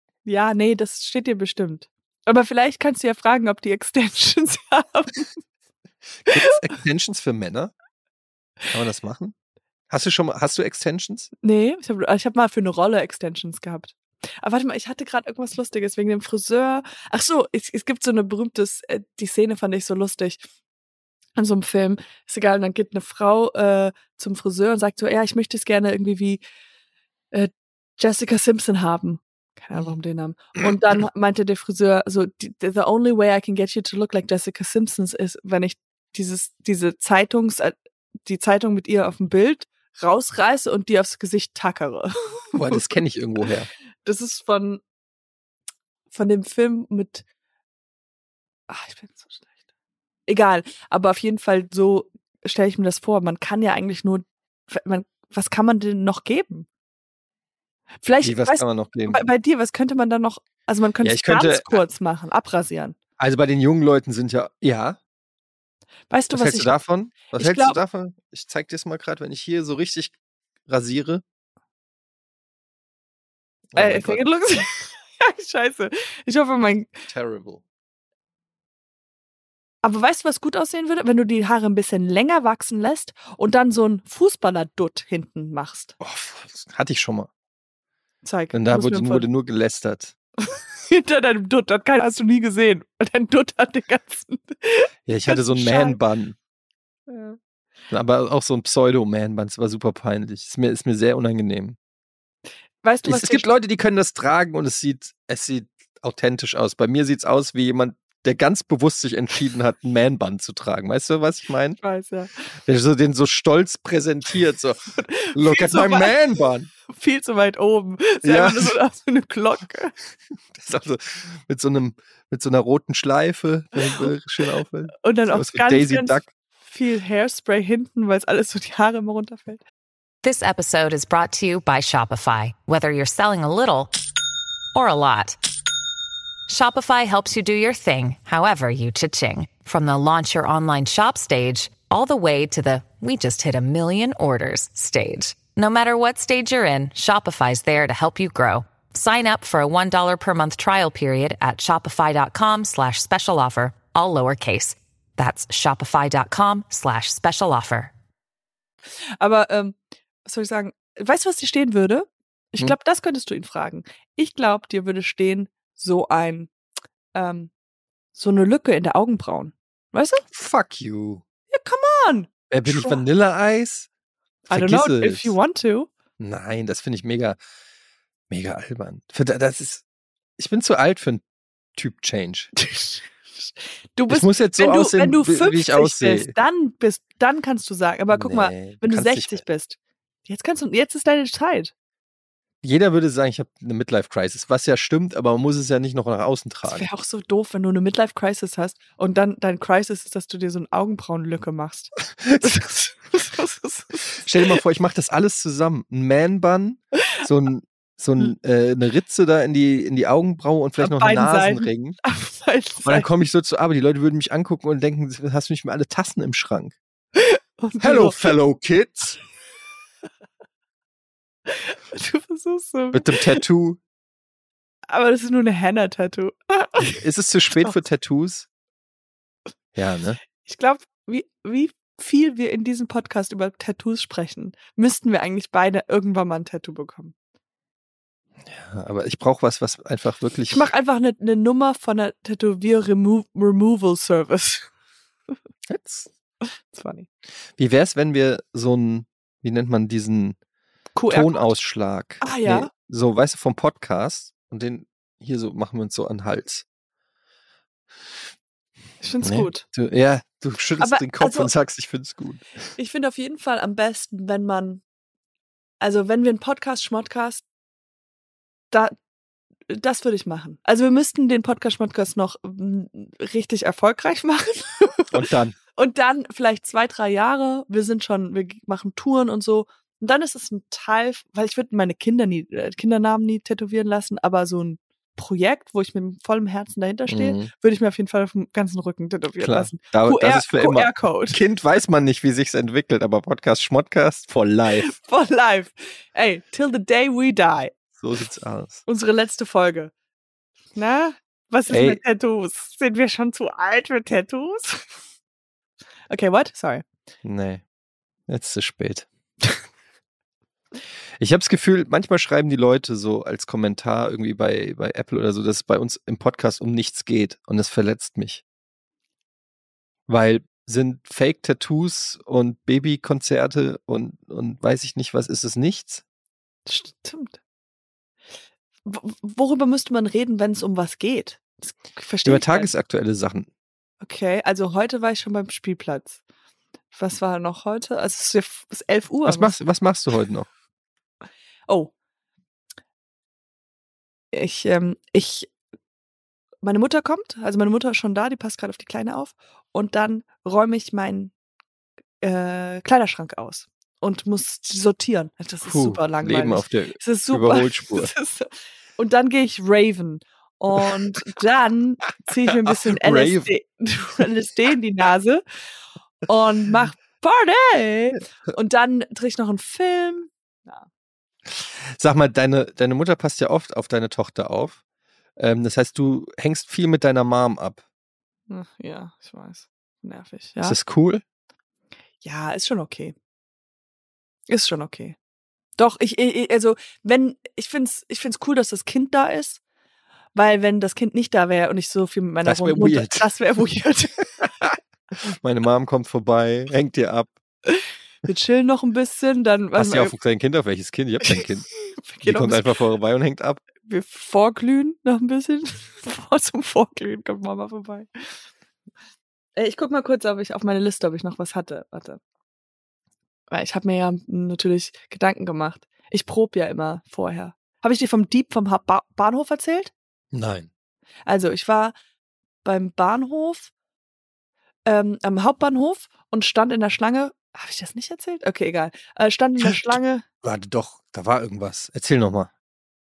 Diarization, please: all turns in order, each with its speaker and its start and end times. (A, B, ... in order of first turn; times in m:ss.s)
0:00.2-0:05.3 A
0:06.3-0:07.7 B
0:08.7-0:09.4 B
0:09.9-0:11.3 B
0:11.4-0:20.4 A
0:21.4-0:26.4 A
0:27.3-0:42.9 A
0:42.5-0:43.7 B
0:44.0-0:44.8 A
0:46.1-0:47.2 A
0:48.7-0:49.4 A
0:50.3-0:56.7 A
0:58.0-1:03.0 A
0:58.2-0:59.2 B
1:01.0-1:01.8 B
1:03.2-1:05.0 B
1:06.1-1:06.8 A
1:06.3-1:10.1 B
1:07.3-1:07.8 A
1:10.7-1:11.2 B
1:13.7-1:14.2 B
1:13.7-1:17.0 A
1:17.1-1:17.6 B
1:19.8-1:25.9 A
1:26.0-1:27.3 B
1:28.2-1:29.3 A
1:28.5-1:30.1 B
1:30.4-1:36.0 A
1:35.1-1:36.4 B
1:37.1-1:37.4 A
1:37.9-1:41.8 B
1:42.8-1:43.5 A
1:43.0-1:51.8 B
1:51.8-1:52.3 A
1:52.6-1:56.7 B
1:55.0-1:56.1 A
1:56.9-1:59.9 A
1:58.2-1:58.8 B
2:00.5-2:06.3 B
2:05.0-2:09.6 A
2:10.2-2:13.9 C
2:14.7-2:15.4 C
2:16.5-2:37.9 C
2:39.2-2:46.5 A
2:47.1-2:47.5 A
2:48.1-2:50.2 A
2:50.3-2:51.2 B
2:51.5-2:53.0 A
2:52.5-2:53.9 B
2:54.5-2:55.9 A
2:54.5-2:55.3 B
2:56.2-2:57.4 B
2:58.3-2:59.8 B
3:00.4-3:01.2 B
3:01.8-3:02.5 B
3:02.6-3:11.7 A
3:04.1-3:06.3 B
3:08.1-3:09.4 B
3:12.6-3:16.9 B
3:16.7-3:24.6 A
3:24.2-3:32.0 B
3:30.8-3:33.1 A
3:32.8-3:36.8 B
3:37.2-3:38.3 A
3:37.8-3:39.2 B
3:41.5-3:43.4 A
3:42.9-3:43.8 B
3:44.9-3:47.0 A
3:46.9-3:48.5 B
3:49.7-3:50.2 B
3:50.4-3:57.1 A
3:58.4-4:00.7 B
4:00.5-4:04.7 A
4:05.7-4:06.1 B
4:06.7-4:07.1 A
4:07.6-4:10.4 B
4:11.0-4:11.5 A
4:11.1-4:16.6 B
4:12.2-4:12.7 A
4:19.0-4:19.6 A
4:19.2-4:22.4 B
4:20.8-4:21.5 A
4:22.8-4:24.8 A
4:25.8-4:27.4 A
4:29.7-4:35.1 A
4:35.1-4:35.6 B
4:35.8-4:51.4 A
4:47.1-4:47.5 B
4:49.4-4:54.9 B
4:54.8-4:57.7 A
4:58.0-4:58.8 B
4:58.9-4:59.9 A
5:00.7-5:04.8 A
5:01.7-5:02.0 B
5:06.1-5:06.9 A
5:07.2-5:07.6 B
5:08.3-5:09.1 B
5:11.2-5:18.4 B
5:20.1-5:26.0 B
5:26.7-5:27.4 A
5:28.9-5:32.7 A
5:32.2-5:33.5 B
5:34.0-5:36.2 A
5:36.9-5:39.6 A
5:39.2-5:40.5 B
5:44.3-5:45.5 A
5:46.6-5:51.3 A
5:52.2-6:05.4 A
5:55.6-5:58.1 B
6:02.5-6:03.5 B
6:06.3-6:10.9 A
6:11.5-6:14.8 B
6:15.4-6:17.8 B
6:18.5-6:20.8 A
6:20.6-6:21.2 B
6:22.2-6:23.1 A
6:24.5-6:25.1 A
6:25.8-6:29.6 A
6:30.3-6:34.7 A
6:32.4-6:33.3 B
6:35.2-6:37.4 B
6:37.7-6:40.1 A
6:39.8-6:41.7 B
6:41.2-6:42.7 A
6:42.2-6:43.6 B
6:43.8-6:48.1 A
6:49.6-6:52.2 A
6:53.5-6:59.9 A
7:00.3-7:00.7 B
7:01.3-7:02.0 A
7:02.6-7:03.7 A
7:04.9-7:10.2 A
7:09.6-7:12.5 B